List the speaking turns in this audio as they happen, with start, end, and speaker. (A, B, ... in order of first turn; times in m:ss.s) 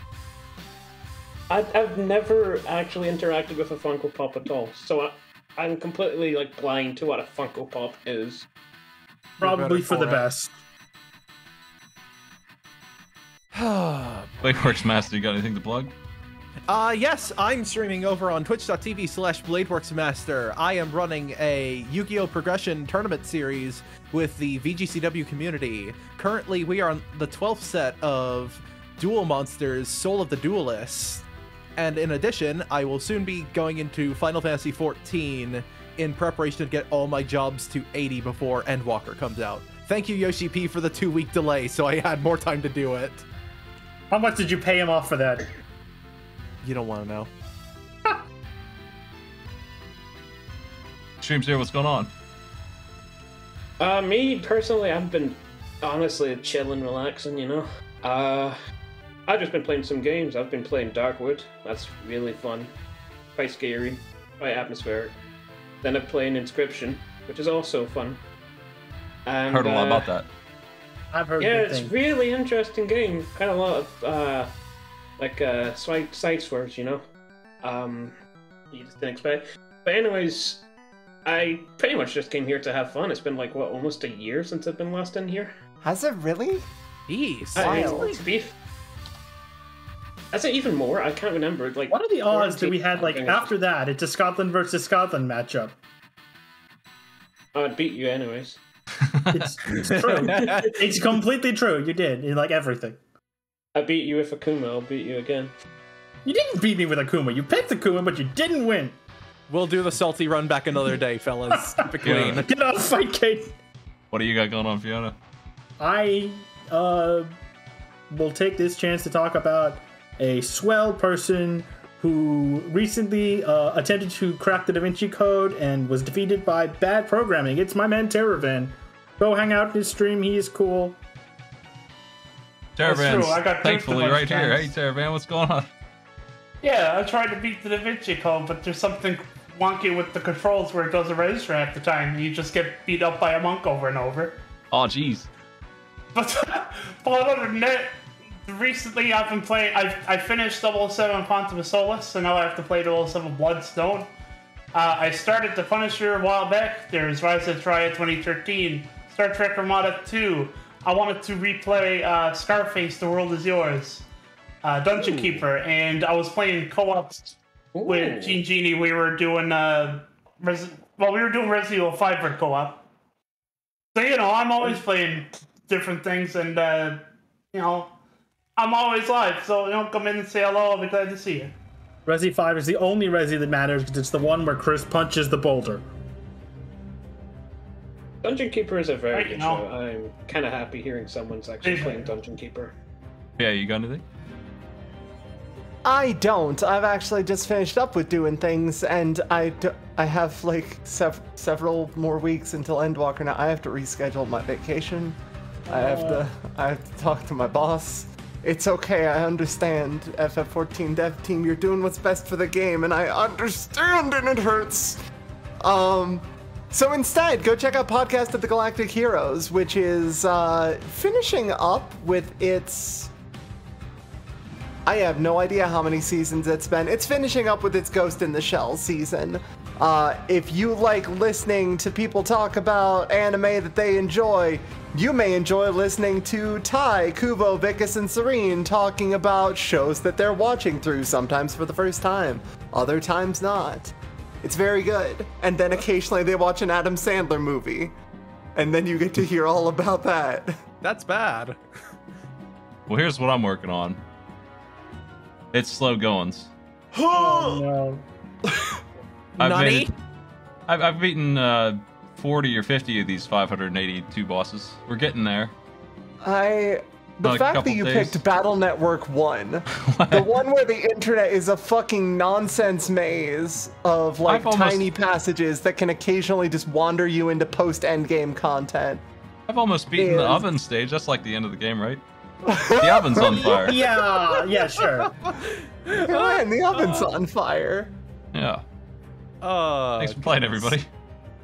0:01.5-0:08.5 A
0:09.4-0:10.3 B
0:09.4-0:10.5 C
0:13.5-0:14.5 B
0:14.4-0:15.9 D
0:16.7-0:31.2 B
0:31.8-0:43.2 B
0:44.1-0:45.5 C
0:46.6-0:47.3 B
0:51.2-0:52.1 D
0:53.8-0:58.6 A
0:59.3-1:02.7 A
1:03.4-1:05.2 A
1:05.8-1:08.2 A
1:09.3-1:10.1 A
1:09.5-1:10.3 D
1:11.1-1:12.0 C
1:11.4-1:14.5 A
1:15.2-1:17.0 A
1:17.6-1:18.1 A
1:18.7-1:20.7 A
1:21.3-1:25.6 A
1:25.8-1:26.7 E
1:27.1-1:28.3 B
1:27.6-1:28.2 E
1:27.6-1:28.5 A
1:30.3-1:33.5 A
1:31.9-1:35.7 C
1:37.5-1:38.6 A
1:39.0-1:39.5 D
1:39.3-1:43.0 C
1:39.6-1:40.8 B
1:40.1-1:40.7 A
1:43.7-1:45.5 A
1:46.2-1:49.0 C
1:49.5-1:52.5 B
1:51.6-1:53.5 C
1:52.0-1:52.4 D
1:54.1-1:55.2 D
1:55.8-1:57.3 C
1:58.1-2:11.0 C
2:12.8-2:15.7 D
2:12.8-2:14.7 F
2:16.6-2:24.4 F
2:24.7-2:25.3 D
2:26.1-2:34.1 F
2:34.7-2:44.1 F
2:44.6-2:52.9 F
2:47.7-2:48.4 A
2:53.9-2:57.9 F
2:58.6-3:01.6 F
3:02.1-3:05.8 C
3:08.2-3:12.8 A
3:09.1-3:09.6 F
3:11.6-3:12.1 F
3:13.4-3:14.0 D
3:15.8-3:35.0 E
3:25.7-3:26.2 C
3:35.6-3:43.1 E
3:44.9-4:07.9 E
4:08.6-4:10.6 E
4:10.8-4:11.6 B
4:12.9-4:14.0 D
4:15.5-4:16.5 D
4:16.9-4:17.6 E
4:17.1-4:18.0 C
4:18.4-4:18.8 E
4:19.4-4:19.9 B
4:19.4-4:19.9 D
4:20.7-4:25.5 D
4:26.2-4:39.0 E
4:27.2-4:28.2 D
4:29.8-4:30.3 D
4:34.3-4:34.9 D
4:39.5-4:42.0 D
4:39.9-4:40.5 E
4:42.4-4:43.9 E
4:42.8-4:43.8 D
4:43.1-4:45.1 C
4:44.8-4:47.2 B
4:45.9-4:47.9 E
4:48.3-4:48.6 D
4:49.4-4:50.8 B
4:50.0-4:50.9 D